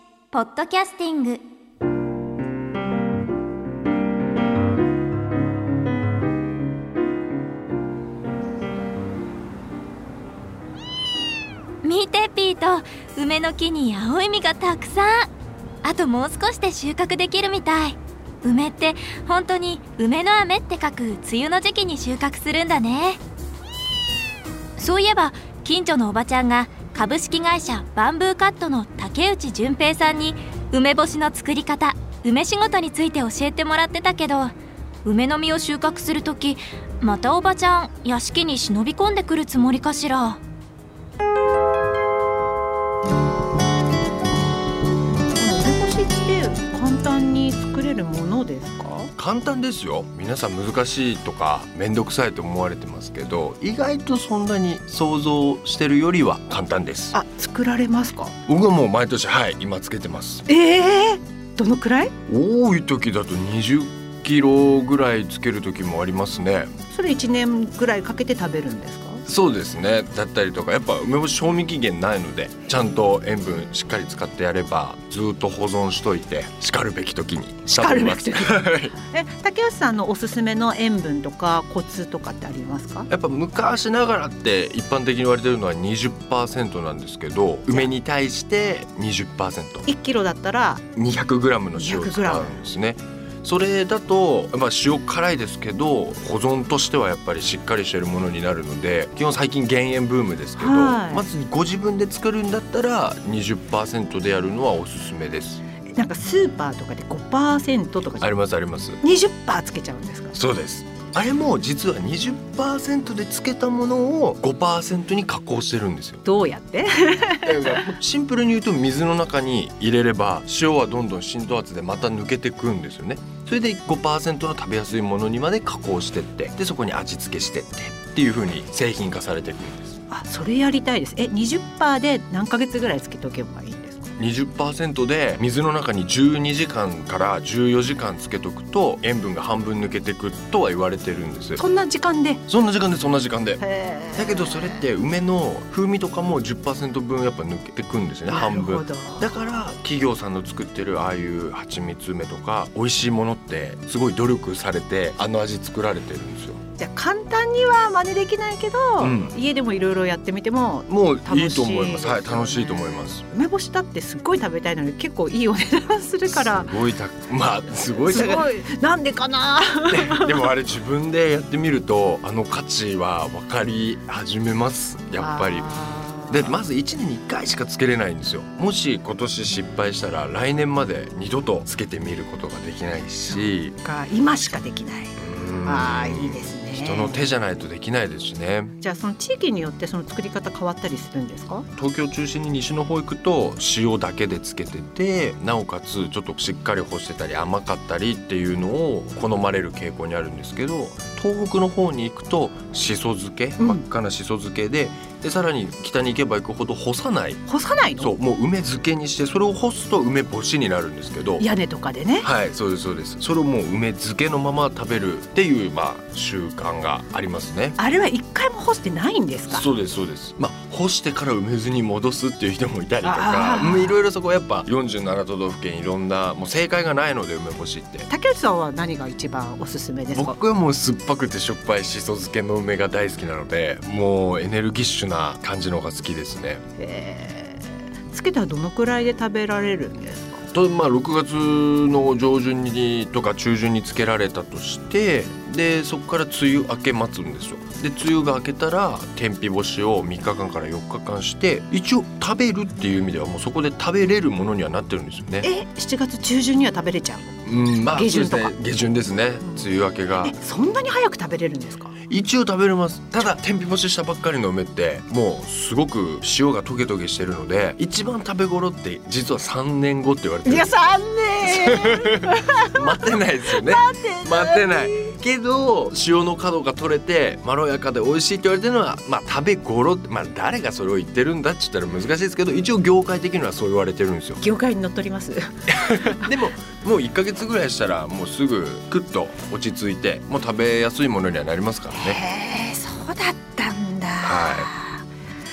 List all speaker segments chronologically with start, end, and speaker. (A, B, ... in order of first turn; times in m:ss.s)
0:00.3-0:01.4 A
0:11.8-0:15.3 A
0:15.8-0:23.2 A
0:24.8-0:34.5 A
0:35.0-0:40.4 A
0:45.4-0:49.1 B
0:49.2-0:57.2 C
0:57.1-0:58.3 B
0:58.4-1:00.4 C
1:00.5-1:02.1 B
1:02.3-1:06.7 C
1:06.9-1:09.2 B
1:09.2-1:18.9 C
1:17.8-1:23.1 B
1:23.1-1:29.8 C
1:29.8-1:30.8 B
1:30.9-1:45.6 C
1:31.7-1:32.6 B
1:40.6-1:41.2 B
1:45.9-1:48.3 B
1:48.2-1:49.0 C
1:49.0-1:50.3 B
1:50.3-1:56.2 C
1:56.2-1:57.8 B
1:57.4-2:10.0 C
2:10.1-2:14.1 B
2:14.2-2:21.6 C
2:21.6-2:22.4 B
2:22.5-2:23.6 C
2:23.6-2:24.8 B
2:24.2-2:36.6 C
2:28.3-2:29.3 B
2:36.8-2:46.7 B
2:39.0-2:39.3 C
2:40.9-2:43.2 C
2:46.3-2:48.5 C
2:48.0-2:50.4 B
2:49.9-2:55.7 C
2:55.2-2:56.6 B
2:56.3-3:03.8 C
3:03.3-3:07.3 B
3:05.2-3:08.7 C
3:08.8-3:11.6 B
3:11.8-3:27.4 C
3:23.6-3:23.8 B
3:27.4-3:28.1 B
3:28.0-3:31.4 C
3:31.4-3:32.3 B
3:32.2-3:37.8 C
3:37.8-3:39.7 B
3:39.5-3:48.1 C
3:43.0-3:44.0 B
3:48.1-3:50.4 B
3:50.1-3:56.6 C
3:56.8-4:00.4 B
4:00.5-4:15.5 C
4:15.4-4:17.4 B
4:17.4-4:20.3 C
4:17.9-4:18.5 B
4:20.2-4:21.9 B
4:22.1-4:30.7 C
4:30.4-4:35.1 B
4:31.4-4:44.4 C
4:44.4-4:46.2 B
4:45.7-4:52.2 C
4:51.9-4:55.0 B
4:54.2-4:54.7 C